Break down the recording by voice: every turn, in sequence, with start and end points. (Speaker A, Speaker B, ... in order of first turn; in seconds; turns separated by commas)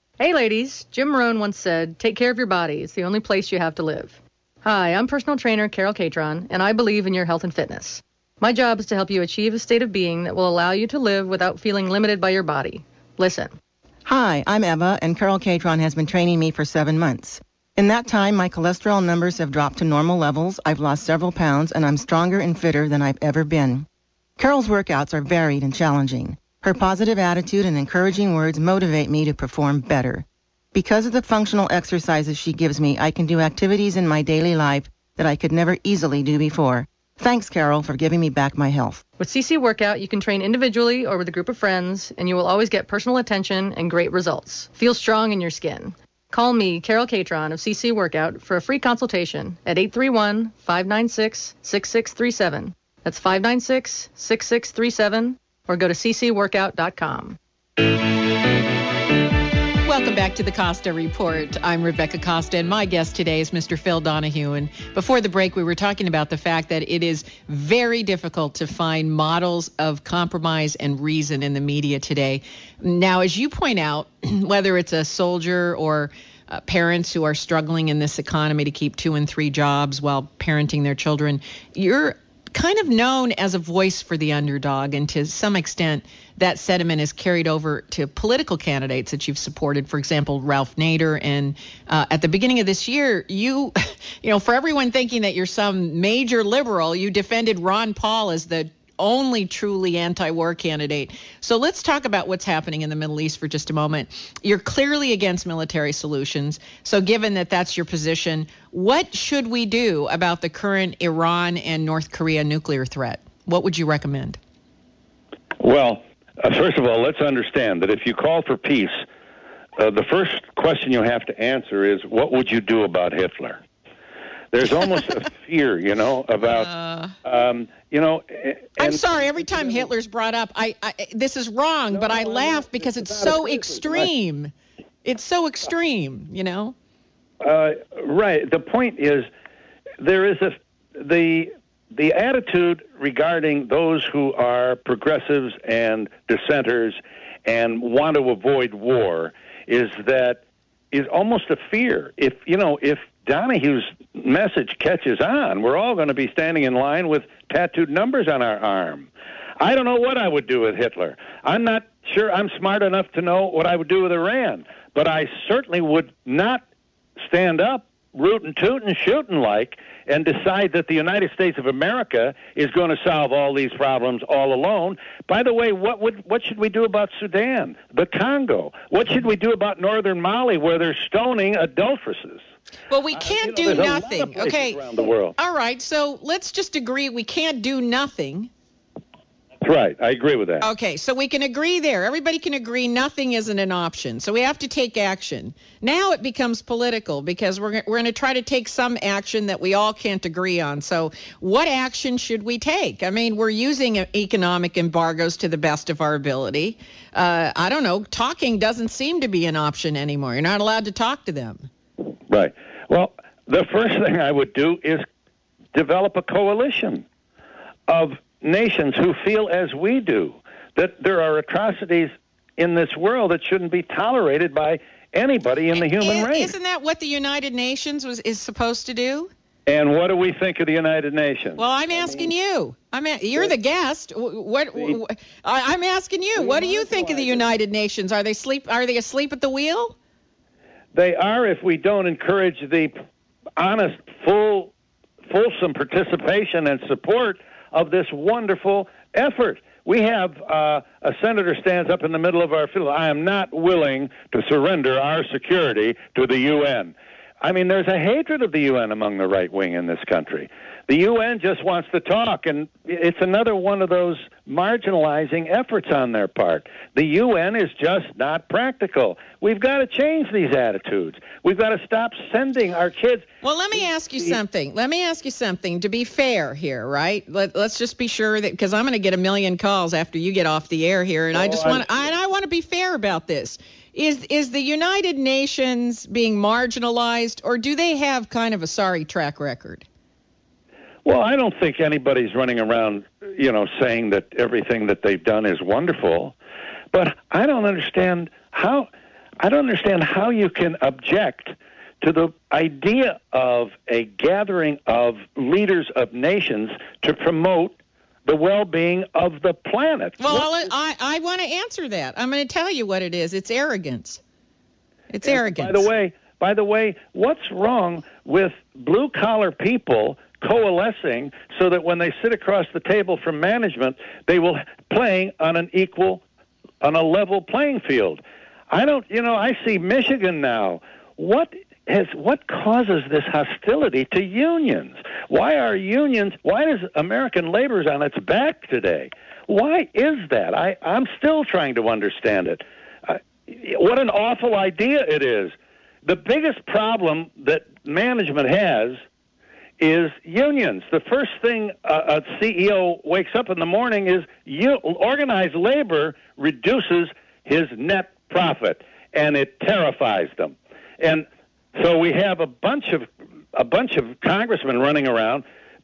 Speaker A: 0.2-13.6, Speaker B: 14.1-23.9, Speaker B: 24.4-39.0, Speaker A: 39.2-57.4, Speaker C: 59.9-114.4, Speaker D: 115.6-119.0, Speaker D: 119.8-123.6, Speaker D: 124.5-126.7, Speaker C: 126.5-127.2, Speaker D: 127.2-129.9, Speaker C: 128.8-134.5, Speaker D: 131.9-134.1, Speaker C: 135.0-136.8, Speaker D: 137.4-139.3, Speaker D: 140.0-150.4, Speaker D: 150.9-166.6, Speaker D: 167.2-182.4, Speaker C: 182.9-184.8, Speaker D: 183.2-185.4, Speaker C: 185.4-188.5, Speaker D: 189.6-190.7, Speaker C: 190.6-211.7, Speaker D: 212.3-215.1, Speaker D: 215.7-217.0, Speaker D: 217.9-226.5, Speaker C: 225.8-229.3, Speaker D: 229.7-232.3, Speaker C: 231.6-240.0, Speaker D: 236.3-237.5, Speaker D: 240.9-242.9, Speaker D: 243.6-244.7, Speaker D: 245.3-274.4, Speaker C: 273.4-289.9, Speaker D: 281.3-282.1, Speaker D: 291.1-296.3, Speaker D: 296.9-298.9, Speaker D: 299.4-310.6, Speaker C: 310.2-314.2, Speaker C: 315.1-315.9, Speaker D: 315.2-326.2, Speaker D: 326.8-345.5, Speaker D: 346.1-349.0, Speaker D: 349.8-365.4